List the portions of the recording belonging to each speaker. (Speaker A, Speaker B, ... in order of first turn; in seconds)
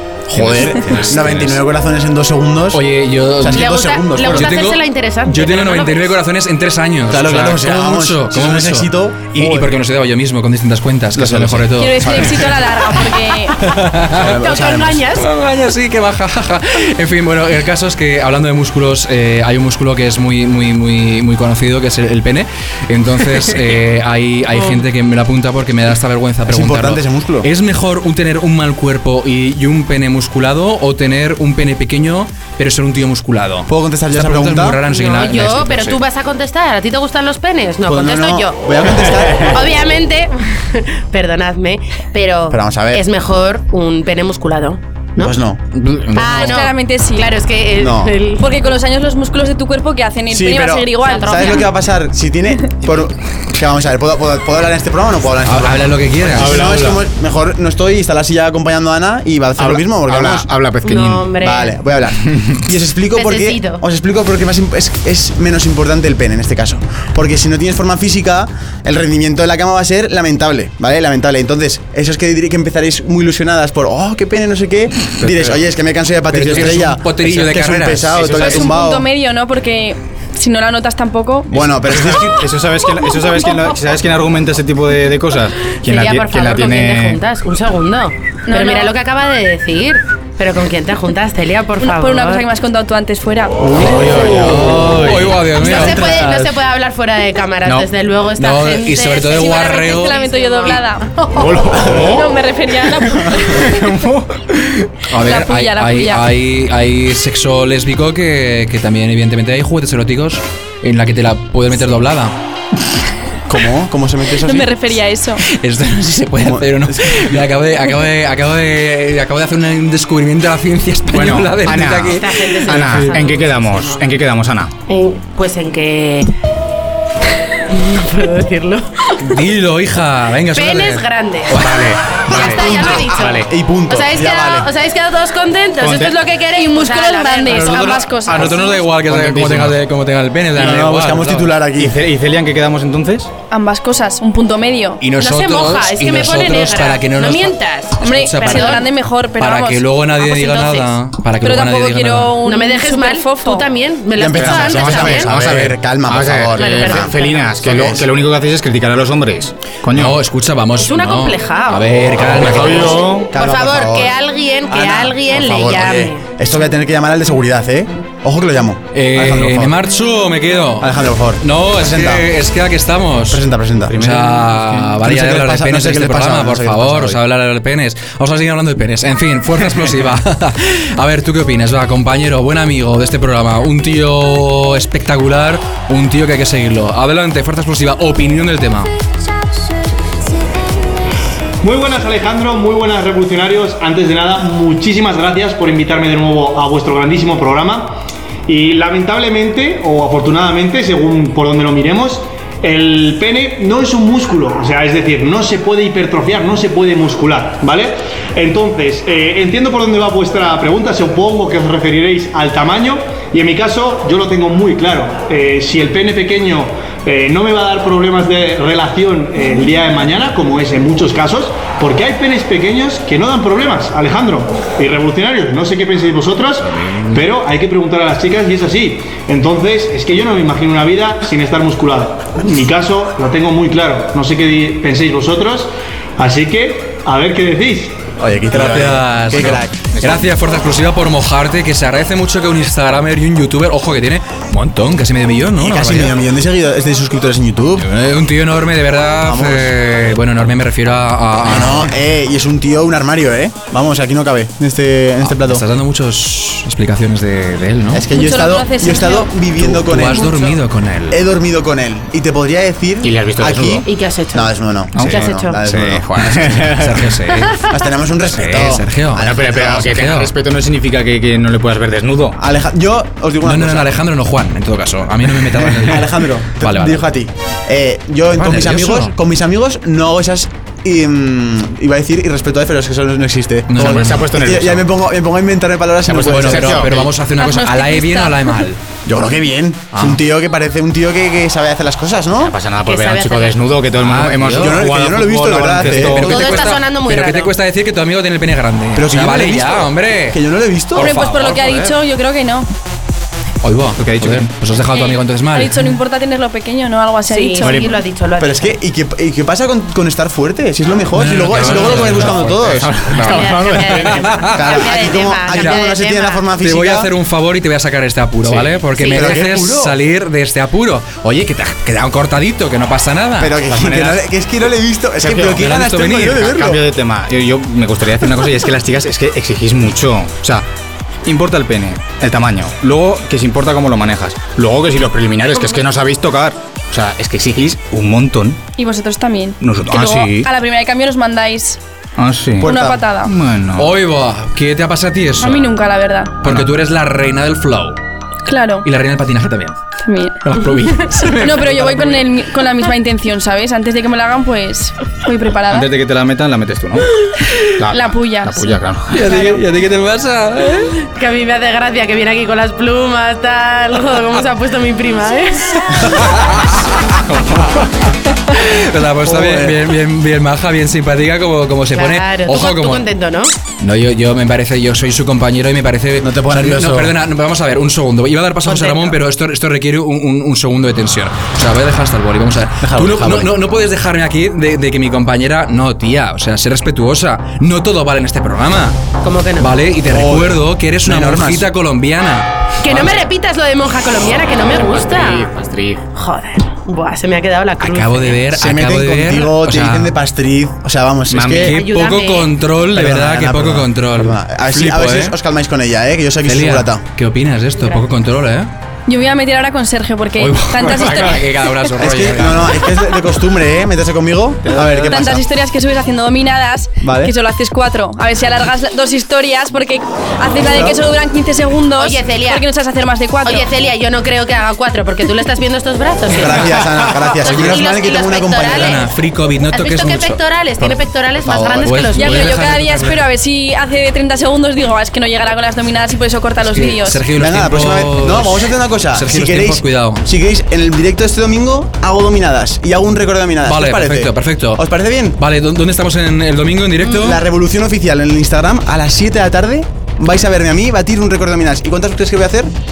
Speaker A: 0.3-2.8, 3.4-4.5, 7.1-9.7, 11.1-12.5, 14.1-15.1, 26.4-27.5, 33.7-34.8, 37.9-39.7, 42.5-43.0, 45.2-45.6, 47.7-48.2, 50.3-60.5, 61.4-79.1, 81.5-82.5, 93.8-94.7, 95.6-96.3, 113.5-114.7, 116.4-117.4, 133.4-134.7, 140.5-141.9, 154.1-158.1, 163.3-164.2, 164.7-169.7, 170.8-172.3, 173.3-174.0, 175.0-177.2, 238.2-239.8, 245.6-247.9, 249.2-249.7, 251.4-255.6, 257.9-266.5, 267.7-269.6, 272.4-273.9, 275.8-287.1, 289.1-292.5, 294.5-296.7, 298.9-301.1, 308.4-312.9, 314.5-317.1, 319.1-320.0, 323.4-326.8, 342.6-343.0, 369.2-369.8, 376.2-377.1, 382.8-383.5, 390.1-391.7, 398.5-401.8, 402.9-407.0, 412.0-415.4, 417.0-417.3, 420.6-421.0, 426.3-429.0, 431.4-431.9, 437.3-445.4, 447.1-452.7
Speaker B: 0.3-1.6, 2.7-12.4, 13.6-14.3, 15.2-36.0, 45.7-46.5, 55.4-56.9, 76.3-78.7, 93.8-96.5, 97.6-100.2, 105.1-112.3, 115.5-123.2, 129.2-131.8, 132.3-133.1, 137.5-141.5, 145.0-152.3, 159.9-163.0, 168.9-173.4, 174.0-188.9, 238.5-246.1, 247.8-251.9, 255.2-258.0, 259.6-261.2, 266.4-267.6, 268.2-270.3, 273.4-276.1, 276.6-277.1, 278.4-279.1, 283.7-284.2, 286.1-288.8, 289.9-290.2, 294.0-294.8, 295.7-300.4, 300.9-301.9, 303.6-305.9, 311.1-314.8, 315.5-315.8, 316.6-323.6, 325.6-326.5, 343.8-345.7, 346.4-348.0, 348.8-349.8, 350.4-352.1, 359.1-361.1, 366.0-373.1, 373.8-388.9, 389.6-393.2, 397.8-400.1, 401.6-405.4, 406.4-408.7, 410.4-412.9, 427.4-427.8, 428.7-430.9, 431.8-433.2, 436.7-440.3, 443.6-444.8, 445.4-447.4
Speaker C: 0.5-1.2, 56.4-57.0, 59.6-61.3, 62.2-62.6, 81.9-87.2, 93.7-95.2, 101.4-102.3, 103.1-104.7, 121.1-124.7, 131.5-133.5, 135.8-136.2, 139.0-139.8, 141.8-143.3, 154.3-160.2, 162.2-163.3, 173.9-174.9, 239.9-240.2, 263.0-263.9, 264.9-267.0, 269.2-272.4, 283.8-284.8, 286.1-287.1, 292.4-296.5, 304.0-304.5, 311.6-314.2, 323.7-324.2, 325.2-325.6, 326.5-330.6, 331.2-338.6, 339.6-340.5, 342.2-342.7, 343.2-343.9, 346.4-346.7, 355.7-357.1, 357.8-359.3, 394.4-396.0, 401.3-401.7, 414.8-415.2
Speaker D: 3.4-6.1, 14.2-15.2, 24.5-24.8, 34.9-38.6, 39.4-45.3, 46.1-48.5, 51.0-51.7, 60.8-61.8, 63.1-63.8, 85.8-92.4, 95.5-100.8, 122.1-124.1, 124.9-126.3, 127.5-129.2, 130.5-138.5, 145.2-148.8, 150.2-150.9, 152.4-155.4, 156.5-157.9, 160.8-161.9, 162.6-166.2, 263.8-265.6, 292.8-293.6, 296.2-297.5, 307.3-308.7, 313.1-316.4, 318.9-319.5, 361.1-366.1, 371.9-373.5, 378.6-379.2, 389.2-389.7, 392.8-395.5, 396.1-398.4, 401.6-402.5, 422.0-422.6, 423.4-429.1, 429.7-432.5
Speaker E: 11.8-13.6, 46.3-47.3, 48.4-51.6, 78.3-81.5, 88.5-88.9, 91.8-93.7, 99.3-101.4, 102.0-103.7, 105.2-106.2, 114.4-115.4, 136.5-138.6, 143.5-145.0, 148.0-149.8, 151.4-153.7, 258.1-259.3, 287.4-288.6, 300.9-302.7, 304.9-307.8, 338.8-341.8, 342.6-343.3, 345.4-346.3, 348.5-348.9, 350.0-355.9, 357.9-358.8, 409.1-411.5, 415.1-423.7, 432.1-437.2
Speaker F: 191.6-238.1